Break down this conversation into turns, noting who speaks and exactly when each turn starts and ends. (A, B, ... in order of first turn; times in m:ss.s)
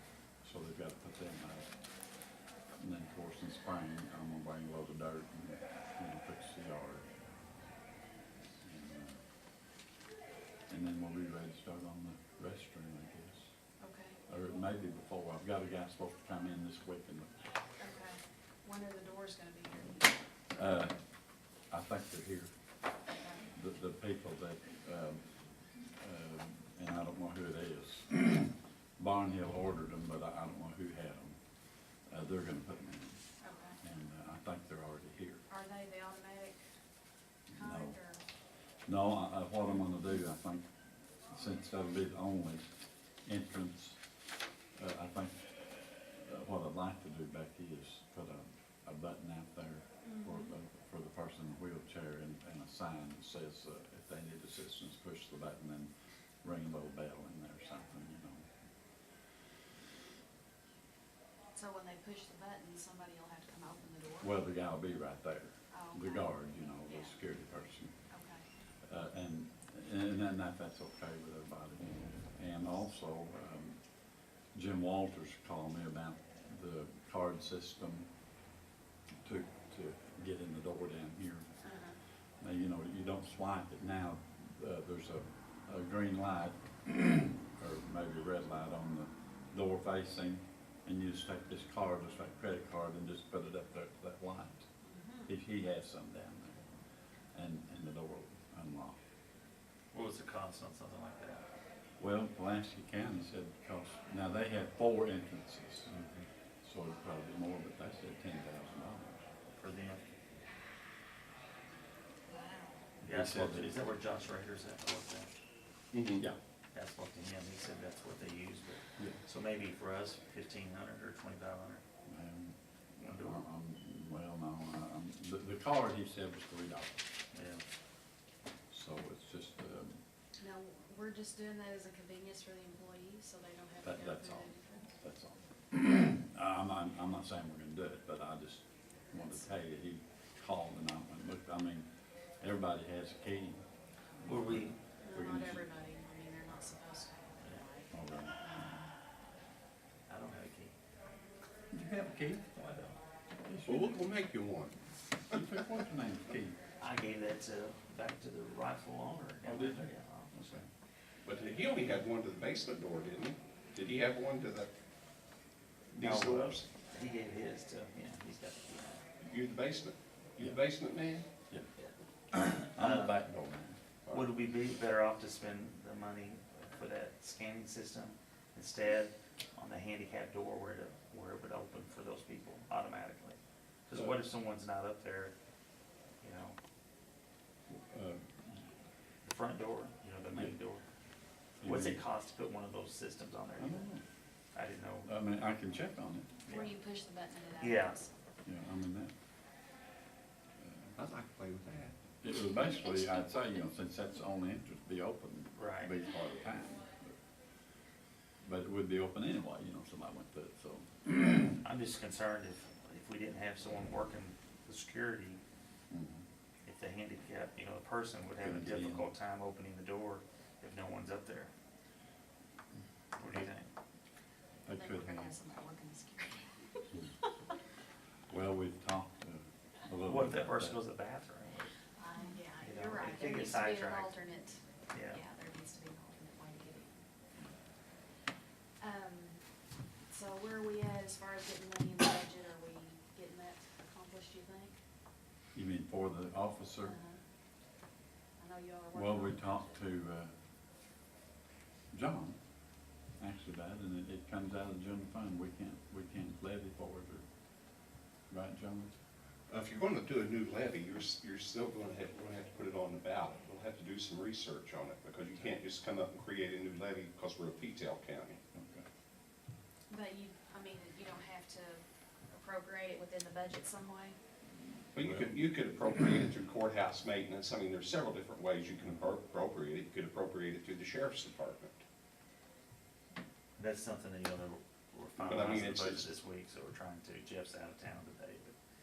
0:00.4-0:01.8 A
0:02.8-0:07.1 A
0:08.6-0:09.2 A
0:10.7-0:13.5 A
0:13.8-0:14.2 B
0:14.3-0:17.4 A
0:17.8-0:20.1 B
0:20.5-0:21.0 A
0:21.7-0:22.5 A
0:23.5-0:25.2 A
0:26.0-0:31.4 A
0:32.1-0:33.2 A
0:33.4-0:33.8 B
0:33.8-0:35.4 A
0:35.5-0:36.6 B
0:37.5-0:38.0 A
0:37.5-0:38.2 B
0:38.8-0:40.6 A
0:41.3-0:42.6 A
0:43.2-0:44.0 A
0:44.7-0:55.9 A
0:50.0-0:50.5 B
0:56.4-0:58.4 A
1:01.5-1:04.3 B
1:04.2-1:07.9 A
1:05.7-1:06.3 B
1:06.8-1:07.1 B
1:08.1-1:08.4 B
1:08.8-1:13.8 A
1:14.5-1:18.1 A
1:19.2-1:21.5 A
1:21.6-1:22.0 B
1:22.4-1:34.7 A
1:34.8-1:35.3 B
1:35.2-1:36.6 A
1:37.3-1:39.0 A
1:39.9-1:41.4 C
1:42.0-1:46.0 A
1:45.9-1:46.2 D
1:46.6-1:49.3 A
1:49.6-1:50.0 C
1:52.3-1:52.8 B
1:53.0-1:53.8 A
1:53.0-1:55.3 C
1:55.9-1:56.2 D
1:56.7-2:01.8 C
2:02.1-2:02.6 A
2:03.0-2:03.4 C
2:03.1-2:07.0 A
2:07.3-2:07.6 C
2:08.7-2:10.0 A
2:10.4-2:14.9 B
2:13.8-2:21.9 A
2:22.4-2:23.7 A
2:24.2-2:25.7 A
2:24.2-2:24.8 C
2:25.0-2:28.9 B
2:27.9-2:28.8 A
2:30.1-2:30.7 C
2:31.7-2:32.5 A
2:32.5-2:33.0 C
2:33.4-2:34.0 A
2:33.6-2:34.7 D
2:35.3-2:36.6 A
2:36.8-2:40.7 C
2:41.2-2:44.7 D
2:45.9-2:46.6 D
2:45.9-2:49.0 C
2:49.2-2:51.3 D
2:51.8-2:53.2 C
2:52.7-2:53.8 A
2:54.0-2:54.3 D
2:54.1-3:05.3 C
3:06.2-3:06.6 C
3:07.7-3:08.5 A
3:09.2-3:10.8 C
3:11.6-3:12.0 A
3:11.6-3:13.9 C
3:13.6-3:14.0 A
3:14.5-3:15.1 C
3:15.0-3:16.3 A
3:16.4-3:16.8 C
3:16.5-3:18.1 B
3:17.6-3:18.0 C
3:18.4-3:19.1 A
3:20.6-3:20.9 A
3:21.0-3:21.9 D
3:22.2-3:27.1 A
3:25.6-3:25.9 C
3:28.4-3:31.6 A
3:31.6-3:35.4 C
3:35.9-3:36.2 A
3:36.6-3:41.5 C
3:38.4-3:39.0 A
3:43.2-3:43.7 C
3:44.6-3:45.3 A
3:44.7-3:46.8 B
3:48.3-3:50.8 A
3:50.0-3:51.8 C
3:52.0-3:57.0 B
3:52.6-3:54.2 C
3:54.9-3:55.2 C
3:58.8-3:59.4 B
4:00.1-4:04.8 B
4:05.5-4:07.0 A
4:06.8-4:07.2 B
4:08.4-4:09.8 B
4:08.9-4:10.3 A
4:11.9-4:12.4 A
4:13.2-4:17.2 A
4:18.3-4:18.9 A
4:19.5-4:28.4 D
4:28.5-4:28.9 A
4:29.9-4:34.2 B
4:34.9-4:41.8 D
4:35.0-4:35.4 A
4:43.6-4:48.6 C
4:45.2-4:46.1 D